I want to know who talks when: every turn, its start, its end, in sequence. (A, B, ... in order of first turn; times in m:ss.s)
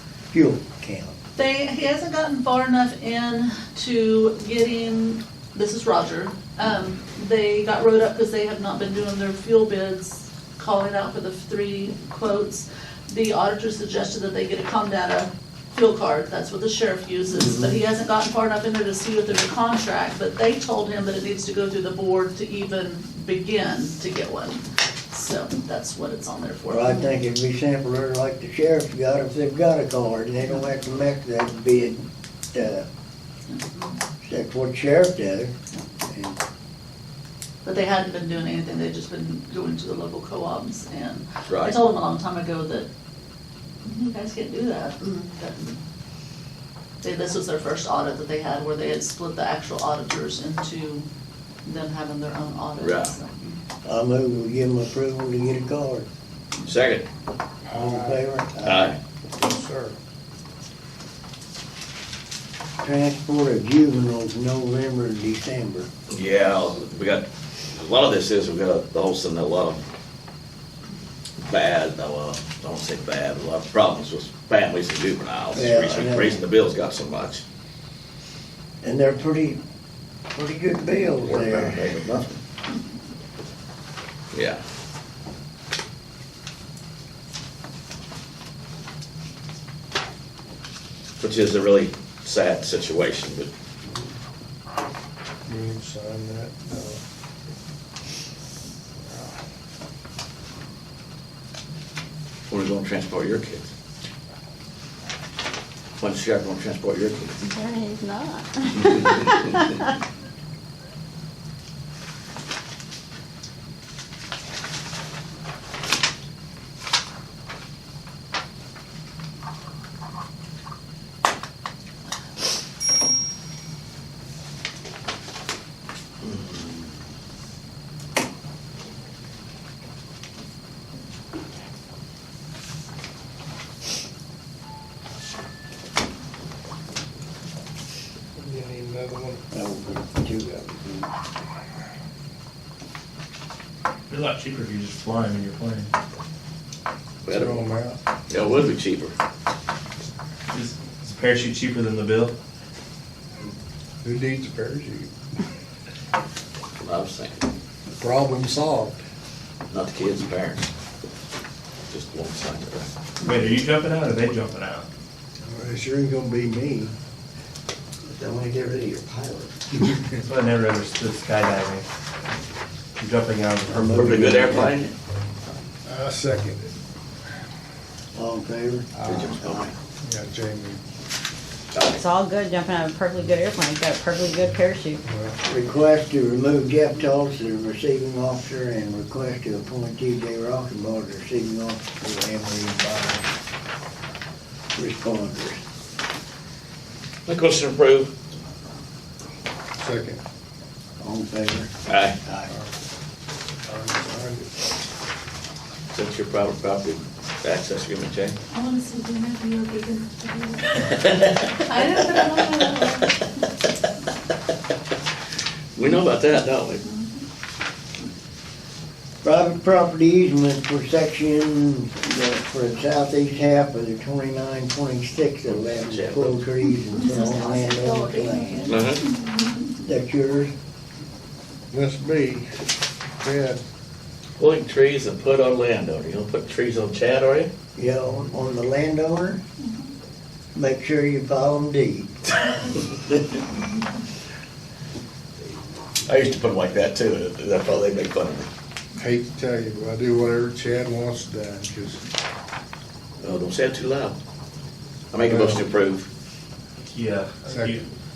0:00.3-0:01.2 A
0:01.4-0:27.1 B
0:17.3-0:17.8 A
0:26.7-0:32.9 A
0:33.5-0:34.0 B
0:34.2-0:35.5 A
0:36.1-0:36.4 A
0:37.6-0:42.9 B
0:41.5-0:41.8 C
0:43.8-0:45.8 B
0:47.0-0:51.1 B
0:51.6-0:53.6 B
0:52.8-0:53.1 C
0:53.8-0:56.1 A
0:56.6-0:57.1 C
0:57.6-0:58.2 D
0:57.7-0:58.9 A
0:58.6-0:59.0 C
0:59.3-1:00.0 D
1:02.8-1:05.9 A
1:06.1-1:09.8 C
1:11.4-1:17.4 C
1:15.5-1:16.4 A
1:18.8-1:19.6 A
1:20.3-1:22.0 A
1:21.2-1:22.4 C
1:24.3-1:24.6 C
1:31.2-1:33.5 C
1:33.9-1:34.1 D
1:35.5-1:37.0 D
1:42.5-1:43.7 C
1:46.0-1:47.5 C
1:47.4-1:49.8 E
2:06.2-2:06.8 C
2:18.4-2:19.4 D
2:19.5-2:21.1 A
2:24.1-2:25.9 F
2:27.2-2:27.7 C
2:27.3-2:28.0 D
2:28.3-2:29.1 C
2:30.5-2:32.3 F
2:34.0-2:35.1 D
2:36.8-2:37.5 C
2:37.9-2:39.0 D
2:39.7-2:40.7 C
2:41.9-2:42.9 C
2:43.2-2:44.8 F
2:45.5-2:46.9 D
2:48.2-2:49.4 C
2:50.2-2:51.8 F
2:53.0-2:54.6 F
2:53.7-2:54.7 A
2:53.9-2:54.9 C
2:55.8-2:56.7 D
2:58.1-2:59.7 A
2:59.0-2:59.3 D
2:59.0-2:59.8 C
3:00.0-3:00.8 D
3:01.7-3:02.0 C
3:02.0-3:05.0 E
3:05.1-3:05.4 D
3:05.4-3:13.3 A
3:14.8-3:15.6 A
3:17.2-3:18.1 C
3:19.8-3:20.2 D
3:21.0-3:21.7 A
3:21.8-3:22.2 C
3:22.2-3:22.5 A
3:23.6-3:24.5 D
3:25.9-3:28.4 C
3:28.5-3:33.2 B
3:30.8-3:31.7 C
3:32.4-3:32.9 C
3:35.8-3:36.8 C
3:39.2-3:48.7 A
3:45.8-3:46.4 C
3:46.9-3:49.5 B
3:48.7-3:49.0 C
3:49.8-3:50.5 A
3:51.7-3:52.5 D
3:53.2-3:53.6 D
3:54.4-3:57.5 C
3:57.8-3:59.4 A
4:00.5-4:02.7 A
4:06.0-4:08.5 C
4:09.0-4:12.0 D
4:13.2-4:14.2 C
4:15.1-4:16.1 C
4:15.2-4:15.6 D
4:16.8-4:17.8 F
4:17.4-4:17.8 D